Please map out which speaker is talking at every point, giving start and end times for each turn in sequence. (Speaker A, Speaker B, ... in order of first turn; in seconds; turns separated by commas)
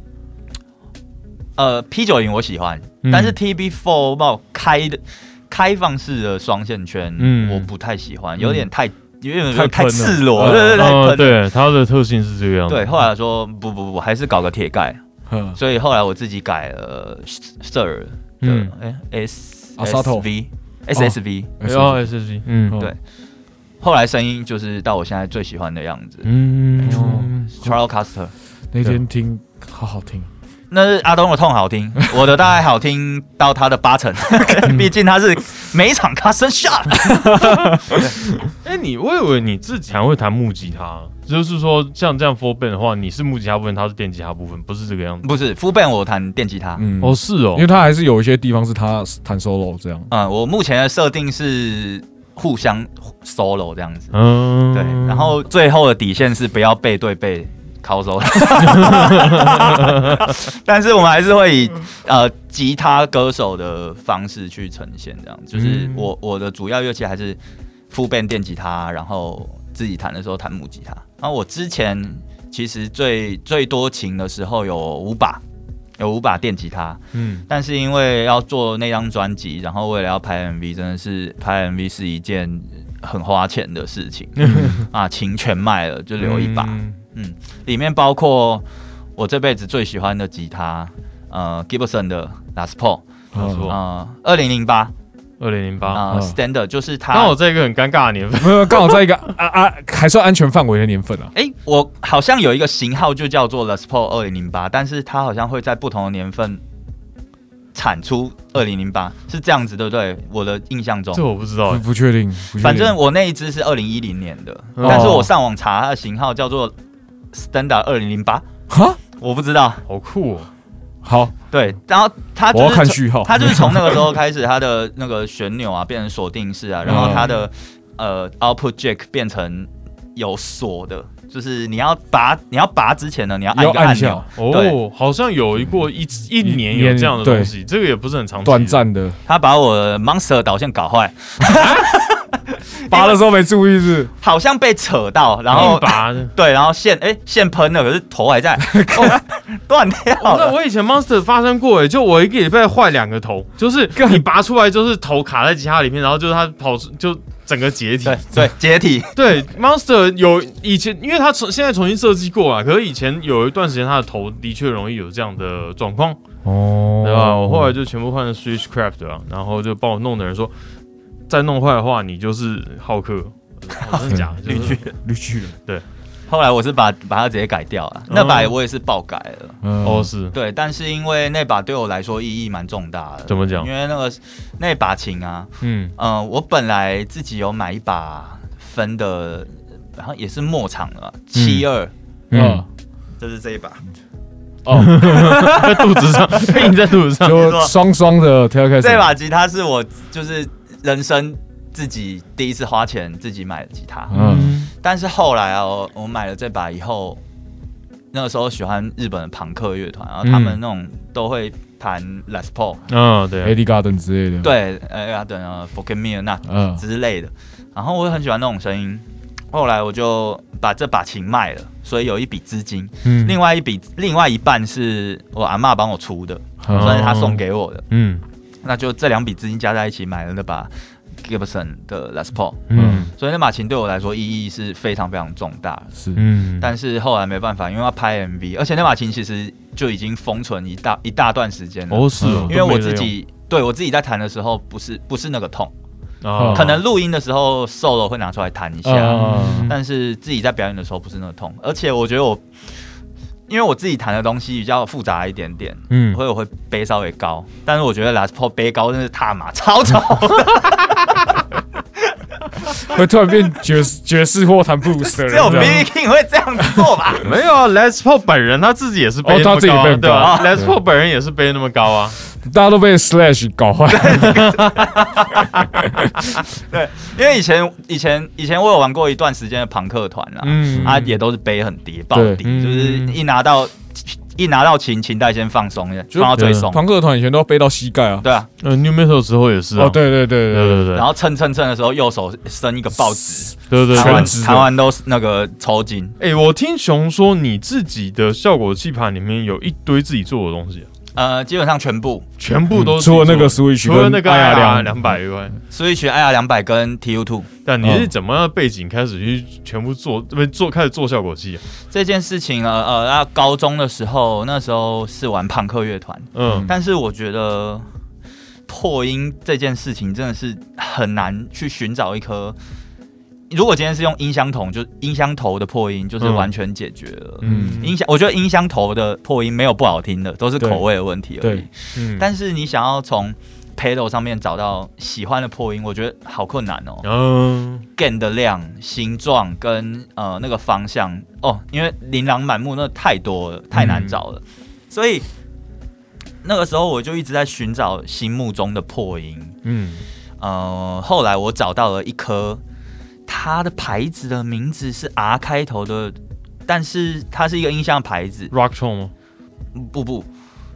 Speaker A: 1.6-11.4, Speaker B: 3.0-3.4, Speaker B: 7.2-7.7, Speaker C: 9.5-10.9, Speaker B: 10.3-12.9, Speaker A: 12.7-15.0, Speaker C: 15.3-15.6, Speaker A: 15.5-21.5, Speaker B: 18.4-18.7, Speaker C: 19.8-20.3, Speaker C: 20.9-22.1, Speaker B: 21.6-22.8, Speaker C: 22.6-22.9, Speaker A: 23.8-26.3, Speaker B: 26.2-27.5, Speaker C: 26.8-27.7, Speaker A: 26.8-28.3, Speaker C: 28.7-30.3, Speaker A: 30.7-38.1, Speaker B: 34.6-34.9, Speaker C: 37.1-38.5, Speaker B: 38.6-45.3, Speaker A: 45.2-46.9, Speaker C: 46.8-50.1, Speaker B: 47.0-47.7, Speaker A: 50.1-54.1, Speaker B: 54.1-55.3, Speaker A: 54.7-67.4, Speaker B: 58.6-59.6, Speaker B: 65.5-66.1, Speaker A: 67.9-75.4, Speaker A: 76.0-93.0, Speaker B: 77.1-77.4, Speaker B: 84.4-84.8, Speaker C: 84.4-84.8, Speaker B: 86.2-87.0, Speaker B: 93.3-93.8, Speaker C: 93.3-93.7, Speaker A: 93.7-94.9, Speaker B: 95.4-96.0, Speaker A: 95.9-97.3, Speaker C: 96.1-96.3, Speaker B: 97.1-99.0, Speaker C: 98.4-101.3, Speaker A: 101.3-106.6, Speaker A: 107.7-111.2, Speaker B: 111.1-111.8, Speaker C: 111.7-113.0, Speaker A: 112.6-116.7, Speaker B: 114.8-115.3, Speaker C: 114.8-115.3, Speaker A: 117.3-118.4, Speaker C: 118.7-119.0, Speaker A: 119.2-119.8, Speaker B: 119.9-120.5, Speaker C: 121.0-121.3, Speaker A: 121.5-134.8, Speaker C: 122.5-124.1, Speaker C: 126.8-127.3, Speaker B: 126.8-127.4, Speaker C: 133.5-134.3, Speaker B: 134.4-138.8, Speaker C: 136.4-137.5, Speaker C: 138.4-139.2, Speaker A: 139.2-143.2, Speaker C: 142.9-144.1, Speaker A: 144.2-150.5, Speaker B: 145.5-146.3, Speaker C: 148.6-149.2, Speaker B: 150.2-158.2, Speaker C: 153.9-154.3, Speaker A: 158.0-159.1, Speaker B: 159.1-166.2, Speaker C: 166.4-167.7, Speaker B: 167.0-170.5, Speaker B: 171.3-174.8, Speaker C: 174.0-175.6, Speaker A: 174.4-174.9, Speaker A: 176.3-179.6, Speaker B: 178.1-178.5, Speaker C: 179.6-180.1, Speaker B: 179.8-180.3, Speaker A: 180.3-191.9, Speaker B: 183.3-183.7, Speaker B: 185.6-185.9, Speaker B: 191.3-191.7, Speaker B: 192.3-192.6, Speaker C: 192.3-192.7, Speaker A: 193.2-193.8, Speaker C: 194.6-195.5, Speaker B: 194.7-197.6, Speaker A: 194.9-195.9, Speaker C: 197.2-199.1, Speaker A: 197.3-197.8, Speaker A: 198.8-204.1, Speaker C: 204.1-204.5, Speaker B: 204.1-204.7, Speaker A: 204.8-207.2, Speaker A: 208.1-212.8, Speaker B: 210.2-210.6, Speaker B: 212.9-213.6, Speaker C: 213.4-214.5, Speaker A: 214.4-227.8, Speaker C: 216.4-216.8, Speaker B: 223.0-223.4, Speaker C: 226.6-227.0, Speaker B: 226.7-228.2, Speaker A: 228.6-235.9, Speaker B: 232.7-233.1, Speaker C: 232.7-233.1, Speaker B: 236.2-236.7, Speaker A: 236.6-245.7, Speaker B: 241.9-243.1, Speaker C: 242.2-242.6, Speaker B: 246.2-246.8, Speaker C: 246.3-246.7, Speaker A: 246.5-252.4, Speaker C: 248.8-249.7, Speaker B: 249.0-249.8, Speaker A: 253.5-261.1, Speaker B: 255.9-256.2, Speaker C: 262.7-265.9, Speaker A: 265.1-267.3, Speaker B: 265.5-265.8, Speaker B: 267.2-272.2, Speaker C: 269.2-270.7, Speaker A: 270.1-270.6, Speaker C: 272.4-274.5, Speaker A: 273.9-275.6, Speaker C: 275.7-276.1, Speaker A: 276.6-286.8, Speaker B: 280.4-281.1, Speaker C: 282.1-282.4, Speaker B: 282.4-283.2, Speaker C: 286.1-288.2, Speaker B: 286.3-286.7, Speaker A: 288.2-288.5, Speaker B: 288.6-291.1, Speaker C: 289.8-290.9, Speaker A: 290.9-296.1, Speaker B: 293.7-294.5, Speaker C: 293.9-294.7, Speaker B: 296.2-300.9, Speaker A: 301.1-302.3, Speaker B: 302.4-305.6, Speaker C: 302.7-305.1, Speaker A: 305.7-307.5, Speaker B: 307.6-311.6, Speaker C: 307.8-308.1, Speaker A: 311.9-317.9, Speaker B: 316.3-316.7, Speaker A: 318.7-322.6, Speaker A: 323.5-337.1, Speaker B: 326.2-326.5, Speaker B: 327.4-327.9, Speaker C: 327.4-327.8, Speaker C: 330.6-330.8, Speaker C: 331.4-331.6, Speaker B: 331.9-332.3, Speaker B: 337.0-337.9, Speaker A: 337.9-345.2, Speaker B: 343.7-344.2, Speaker A: 346.4-349.6, Speaker B: 349.6-350.0, Speaker A: 350.4-352.6, Speaker A: 353.3-358.5, Speaker B: 358.5-359.1, Speaker A: 359.7-360.3